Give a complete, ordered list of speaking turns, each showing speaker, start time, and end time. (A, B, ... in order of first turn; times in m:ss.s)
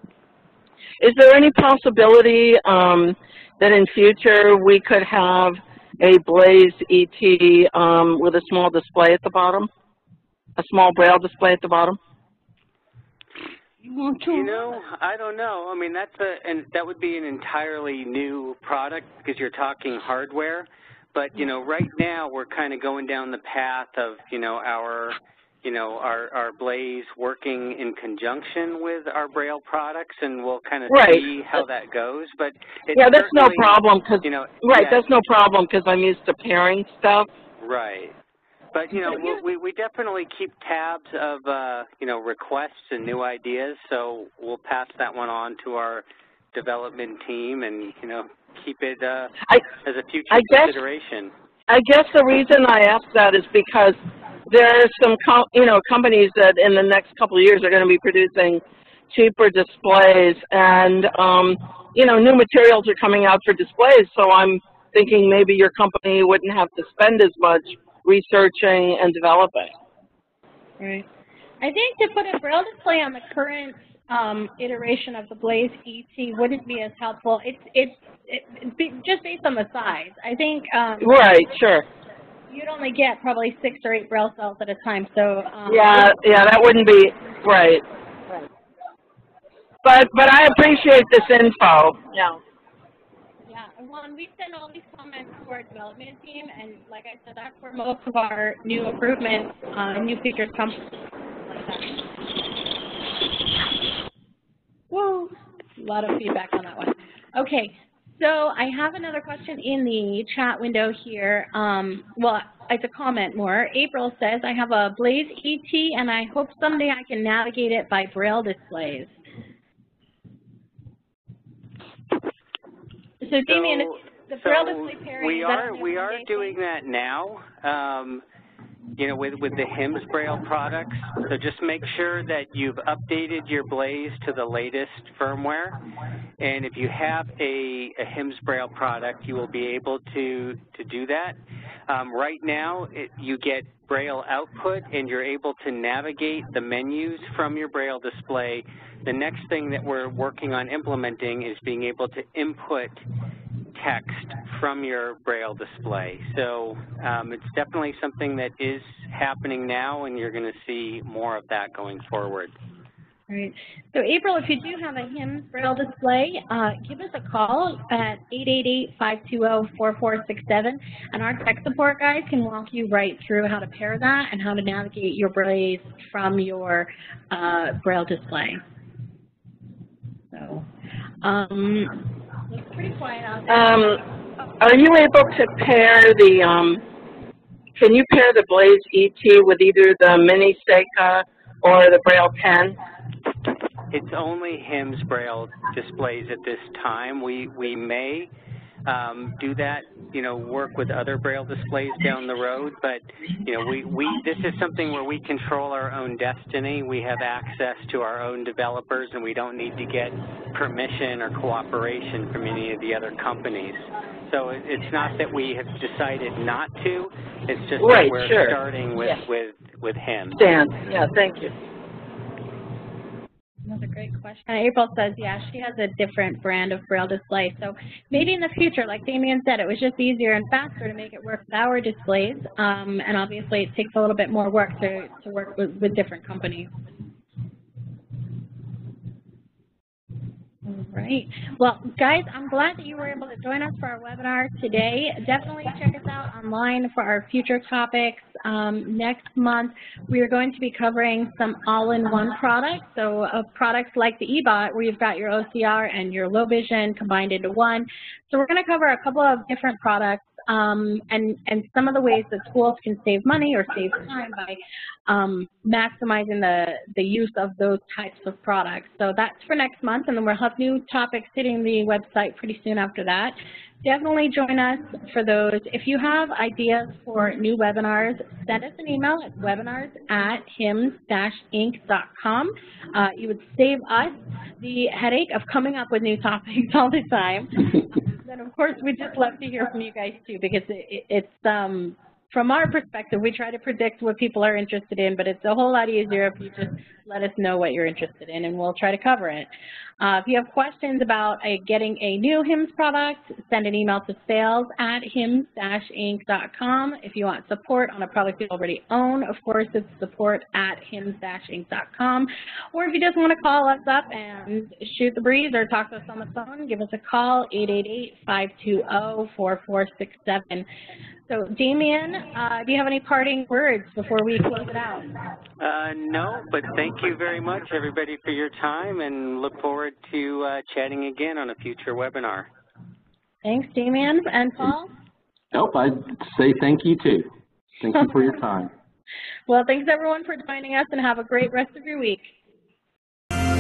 0:01.0-0:09.7 A
0:10.6-0:12.0 A
0:13.8-0:14.8 B
0:14.3-0:35.0 C
0:30.9-0:31.3 A
0:32.9-0:37.3 A
0:37.6-0:38.1 C
0:38.7-0:51.3 C
0:50.3-0:50.8 A
0:51.7-1:09.7 A
1:10.8-1:11.0 B
1:11.6-1:21.2 B
1:21.0-1:21.8 A
1:22.5-1:26.2 B
1:25.7-1:27.8 A
1:29.8-1:32.4 A
1:33.4-1:42.0 B
1:44.9-1:59.2 B
2:03.2-2:06.6 B
2:03.5-2:08.2 C
2:09.0-2:15.8 C
2:16.4-2:21.4 C
2:21.9-2:33.0 C
2:33.7-2:42.5 C
2:43.3-2:58.6 B
3:00.3-3:00.6 B
3:01.2-3:04.0 B
3:03.5-3:04.0 A
3:04.6-3:06.8 A
3:07.8-3:12.8 A
3:13.9-3:18.3 C
3:18.8-3:40.4 C
3:37.8-3:39.2 A
3:40.3-3:41.5 A
3:43.7-3:56.7 B
4:00.6-5:20.7 B
5:21.3-5:25.1 B
5:25.6-5:32.5 C
5:33.4-5:34.9 B
5:35.5-5:38.7 D
5:39.5-5:42.3 B